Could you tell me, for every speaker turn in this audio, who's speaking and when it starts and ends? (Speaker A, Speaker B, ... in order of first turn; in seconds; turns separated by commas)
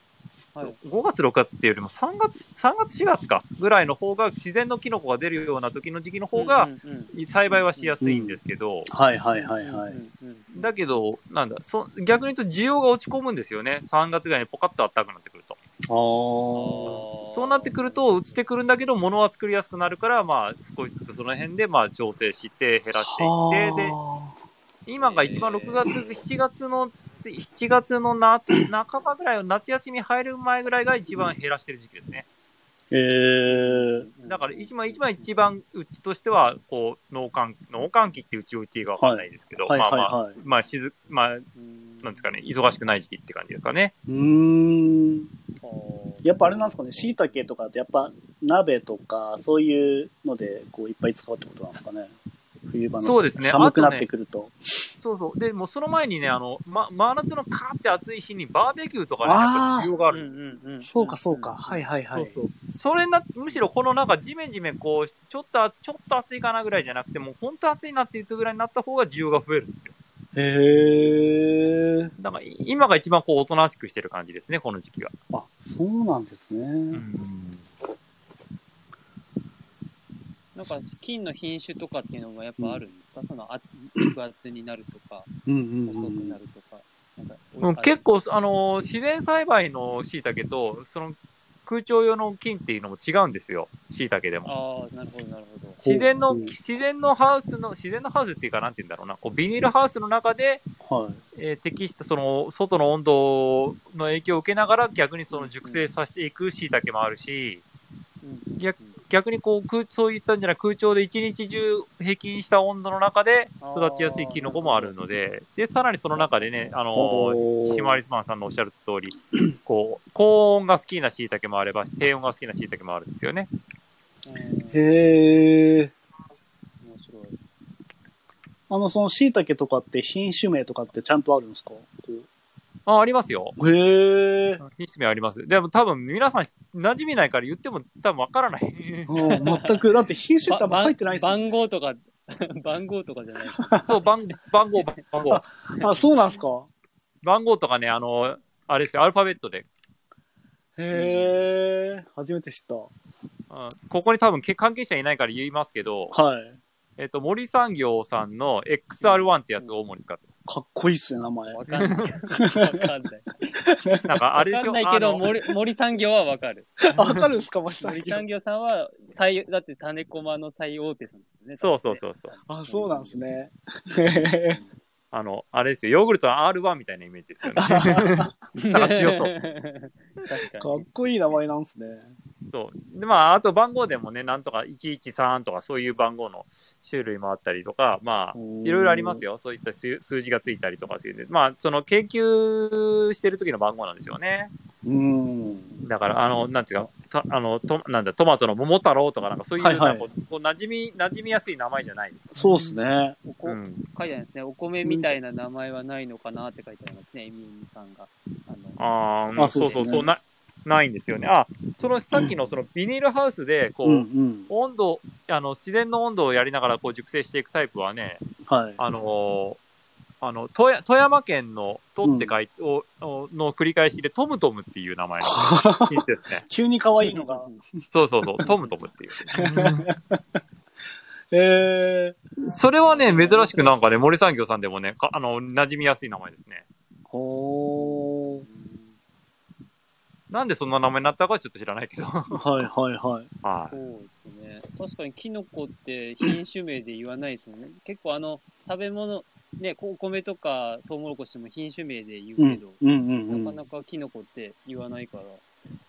Speaker A: 0.6-8.9, Speaker B: 6.3-8.0, Speaker C: 8.0-8.4, Speaker C: 8.9-10.0, Speaker B: 9.3-10.7, Speaker A: 10.6-15.6, Speaker C: 15.9-17.0, Speaker B: 16.5-18.3, Speaker A: 17.3-23.9, Speaker C: 23.0-24.3, Speaker A: 24.9-32.2, Speaker B: 25.0-26.2, Speaker C: 32.9-34.1, Speaker B: 33.5-35.3, Speaker A: 34.3-41.5, Speaker C: 39.0-40.4, Speaker B: 41.5-42.4, Speaker A: 42.0-43.9, Speaker C: 44.1-45.3, Speaker B: 45.6-47.3, Speaker C: 46.2-52.1, Speaker C: 52.6-54.9, Speaker A: 53.0-54.0, Speaker A: 55.0-60.2, Speaker C: 59.2-59.9, Speaker B: 60.1-61.9, Speaker C: 60.8-62.4, Speaker A: 62.1-69.9, Speaker C: 70.3-72.1, Speaker B: 70.8-71.4, Speaker A: 72.2-75.1, Speaker C: 75.3-77.0, Speaker A: 76.9-77.6, Speaker B: 80.5-85.3, Speaker C: 85.5-86.4, Speaker B: 85.9-88.0, Speaker A: 87.6-94.5, Speaker B: 94.4-95.8, Speaker A: 95.8-100.6, Speaker C: 95.8-96.5, Speaker C: 100.8-101.2, Speaker A: 101.3-107.6, Speaker B: 105.3-105.8, Speaker B: 108.2-109.0, Speaker A: 108.6-123.5, Speaker B: 113.6-114.9, Speaker B: 116.1-116.8, Speaker C: 116.9-118.0, Speaker B: 124.2-124.9, Speaker C: 124.7-125.9, Speaker B: 126.8-127.4, Speaker C: 128.7-132.3, Speaker A: 132.8-133.6, Speaker C: 133.6-134.6, Speaker A: 134.6-139.6, Speaker C: 139.1-141.4, Speaker B: 139.3-139.8, Speaker B: 140.5-144.9, Speaker C: 143.5-143.9, Speaker A: 143.9-145.4, Speaker C: 145.3-146.7, Speaker B: 145.8-146.1, Speaker A: 147.2-149.7, Speaker C: 150.8-152.9, Speaker B: 150.9-151.5, Speaker A: 153.5-156.1, Speaker C: 156.1-156.6, Speaker A: 157.0-160.4, Speaker B: 159.0-159.7, Speaker C: 160.4-161.6, Speaker B: 161.5-163.5, Speaker A: 161.7-162.0, Speaker C: 162.4-162.8, Speaker C: 163.6-164.1, Speaker A: 164.1-165.2, Speaker B: 164.5-166.8, Speaker C: 166.8-168.2, Speaker B: 167.8-173.2, Speaker A: 171.6-172.3, Speaker C: 172.5-174.6, Speaker B: 174.0-174.7, Speaker A: 175.1-179.3, Speaker C: 177.5-178.3, Speaker B: 178.6-180.8, Speaker C: 180.6-182.1, Speaker A: 182.5-194.5, Speaker C: 188.3-189.2, Speaker C: 194.8-195.7, Speaker A: 195.8-202.3, Speaker C: 199.6-200.1, Speaker C: 202.3-203.2, Speaker B: 203.2-208.8, Speaker A: 203.4-203.8, Speaker C: 204.8-205.2, Speaker A: 208.8-218.2, Speaker C: 209.4-210.0, Speaker B: 209.5-210.1, Speaker C: 213.8-214.5, Speaker C: 218.4-218.8, Speaker A: 218.8-219.6, Speaker A: 220.2-226.4, Speaker C: 222.0-222.3, Speaker C: 225.2-227.5, Speaker B: 227.0-227.6, Speaker A: 227.9-229.9, Speaker B: 228.4-228.7, Speaker C: 229.3-230.2, Speaker C: 231.3-232.2, Speaker A: 232.4-236.6, Speaker B: 232.8-233.8, Speaker C: 237.1-238.4, Speaker B: 237.8-238.9, Speaker A: 240.3-242.4, Speaker C: 242.3-243.3, Speaker A: 243.4-243.7, Speaker B: 243.6-255.5, Speaker C: 252.4-253.6